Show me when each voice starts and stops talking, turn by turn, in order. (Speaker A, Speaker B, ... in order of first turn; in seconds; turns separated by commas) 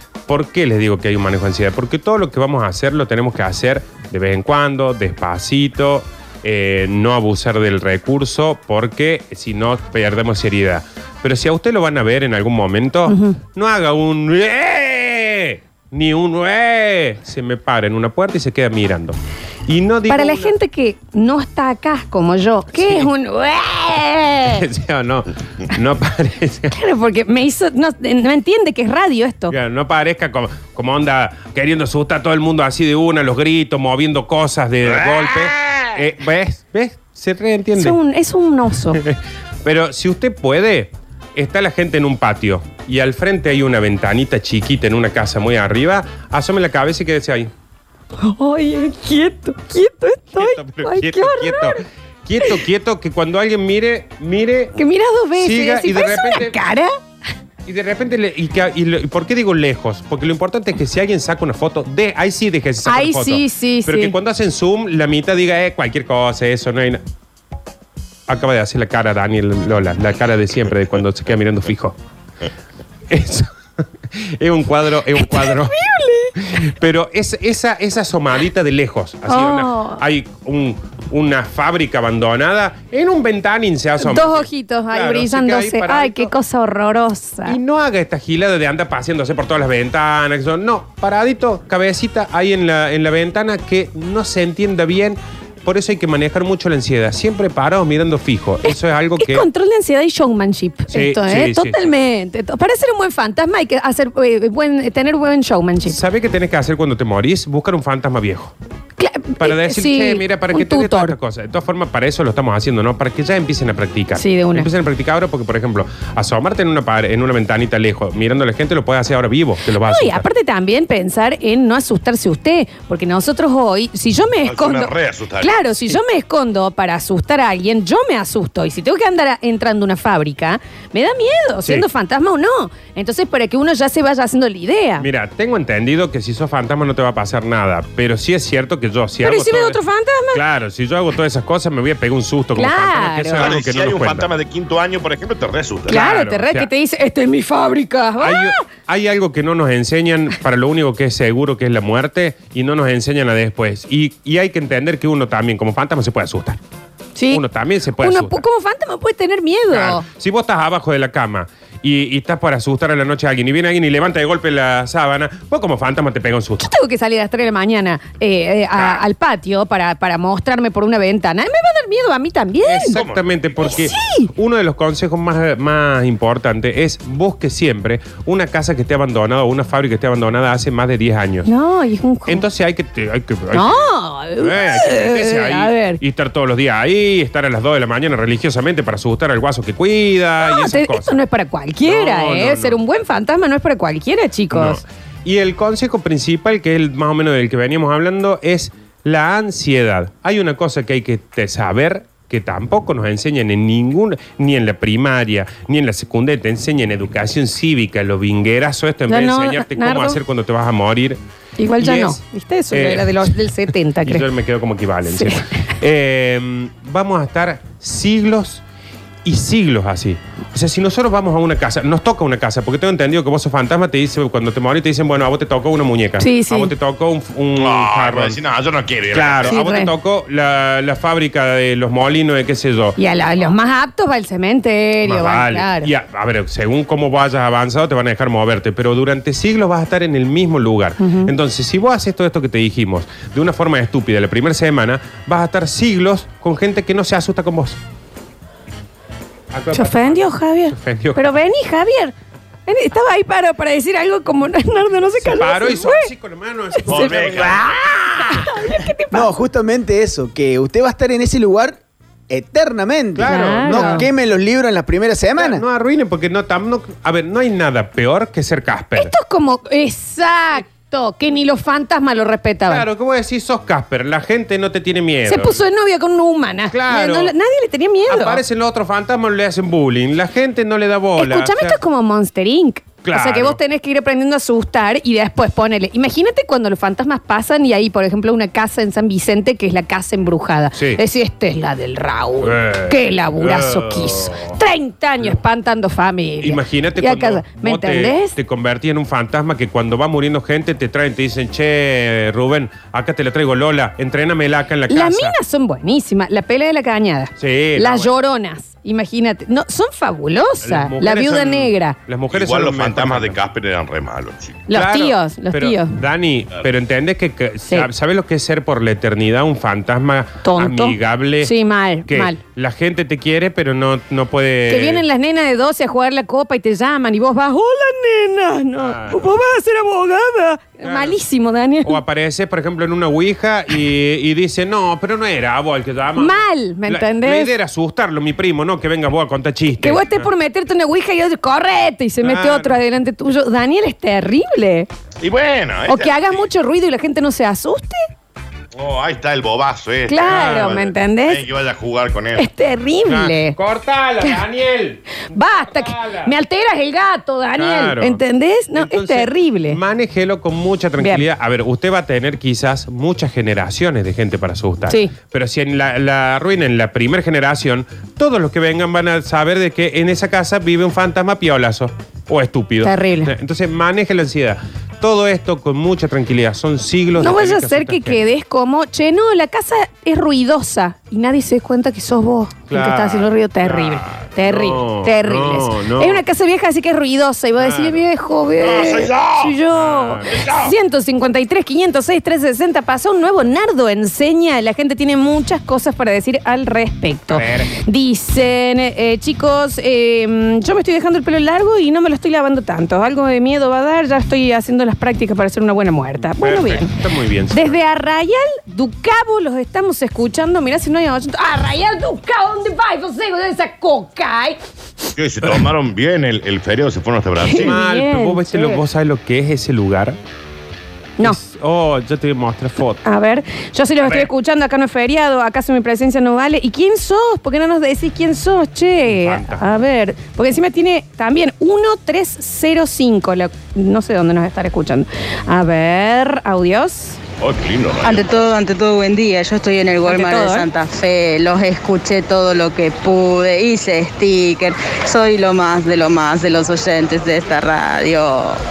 Speaker A: 0.3-20.5, Speaker B: 13.1-13.4, Speaker B: 20.1-24.6, Speaker A: 22.7-23.1, Speaker A: 24.5-26.7, Speaker B: 26.7-29.5, Speaker A: 29.5-38.0, Speaker B: 37.8-39.0, Speaker A: 39.0-47.5, Speaker B: 48.2-51.8, Speaker A: 50.4-54.8, Speaker B: 54.8-56.9, Speaker A: 55.4-56.6, Speaker A: 57.7-67.0, Speaker B: 62.9-64.1, Speaker A: 68.3-72.0, Speaker A: 73.1-73.5, Speaker A: 74.1-75.8, Speaker B: 75.2-76.3, Speaker A: 76.4-86.3, Speaker B: 79.3-80.0, Speaker B: 84.0-87.6, Speaker A: 87.5-99.5, Speaker B: 98.7-106.0, Speaker A: 100.9-101.9, Speaker A: 105.9-108.5, Speaker B: 109.0-111.2, Speaker A: 109.4-120.3, Speaker B: 114.2-114.7, Speaker B: 119.8-135.1, Speaker C: 124.5-125.8, Speaker A: 135.0-139.8, Speaker B: 139.2-140.4, Speaker A: 140.3-144.3, Speaker B: 142.6-143.5, Speaker C: 143.4-146.0, Speaker A: 145.9-146.7, Speaker B: 145.9-148.6, Speaker A: 148.2-156.6, Speaker B: 157.2-157.4, Speaker A: 157.3-158.4, Speaker B: 158.0-160.0, Speaker A: 159.7-166.7, Speaker B: 166.6-173.0, Speaker A: 168.8-169.0, Speaker A: 172.7-181.5, Speaker C: 172.9-173.9, Speaker B: 173.7-174.3, Speaker B: 181.5-182.4, Speaker A: 182.3-191.2, Speaker B: 183.5-186.0, Speaker B: 190.4-194.8, Speaker A: 191.8-192.8, Speaker A: 194.5-211.2, Speaker B: 209.1-210.2, Speaker B: 211.6-214.3, Speaker A: 211.8-212.2, Speaker A: 212.7-213.3, Speaker A: 214.0-218.6, Speaker B: 215.1-215.4, Speaker A: 219.2-228.4, Speaker B: 226.2-226.7, Speaker C: 227.6-229.6, Speaker A: 229.1-233.0, Speaker B: 229.4-229.9, Speaker B: 233.0-235.9, Speaker A: 235.0-247.8, Speaker B: 241.0-241.3, Speaker A: 249.5-251.3, Speaker B: 249.7-252.2, Speaker B: 252.7-256.1, Speaker A: 255.2-258.4, Speaker B: 256.8-259.3, Speaker C: 256.9-257.7, Speaker D: 259.1-265.6, Speaker A: 263.2-264.1, Speaker B: 263.3-264.1, Speaker A: 265.4-269.1, Speaker B: 269.0-272.9, Speaker A: 272.7-275.6, Speaker B: 275.3-278.4, Speaker A: 276.7-277.3, Speaker A: 278.1-281.8, Speaker B: 281.2-298.3, Speaker A: 283.1-283.6, Speaker A: 290.8-291.0, Speaker A: 292.4-294.6, Speaker A: 296.4-305.4, Speaker B: 304.9-312.0, Speaker A: 307.4-308.1, Speaker A: 310.6-313.4, Speaker C: 312.3-314.6, Speaker B: 314.7-315.9, Speaker A: 314.7-321.5, Speaker B: 320.4-322.4, Speaker A: 322.1-325.0, Speaker B: 324.7-332.0, Speaker A: 328.8-329.3, Speaker A: 330.8-331.2, Speaker A: 331.8-340.3, Speaker B: 336.2-337.5, Speaker B: 339.8-344.9, Speaker A: 342.2-342.8, Speaker C: 345.2-346.4, Speaker B: 345.9-348.0, Speaker C: 348.8-352.5, Speaker B: 350.1-351.4, Speaker A: 350.3-350.8, Speaker B: 352.4-353.6, Speaker A: 353.1-356.3, Speaker B: 355.3-359.8, Speaker A: 357.6-358.2, Speaker A: 358.8-378.2, Speaker B: 361.0-361.2, Speaker B: 372.8-373.3, Speaker B: 377.2-406.9, Speaker A: 382.7-386.2, Speaker A: 387.6-388.0, Speaker C: 388.6-389.5, Speaker A: 389.7-390.5, Speaker C: 390.3-390.7, Speaker A: 397.3-397.7, Speaker A: 406.3-407.8, Speaker B: 407.5-414.6, Speaker C: 415.2-417.8, Speaker B: 417.4-418.8, Speaker A: 417.5-420.2, Speaker A: 421.2-423.0, Speaker B: 423.1-437.2, Speaker A: 429.1-429.8, Speaker C: 437.4-438.4, Speaker E: 438.0-448.6, Speaker B: 440.1-440.7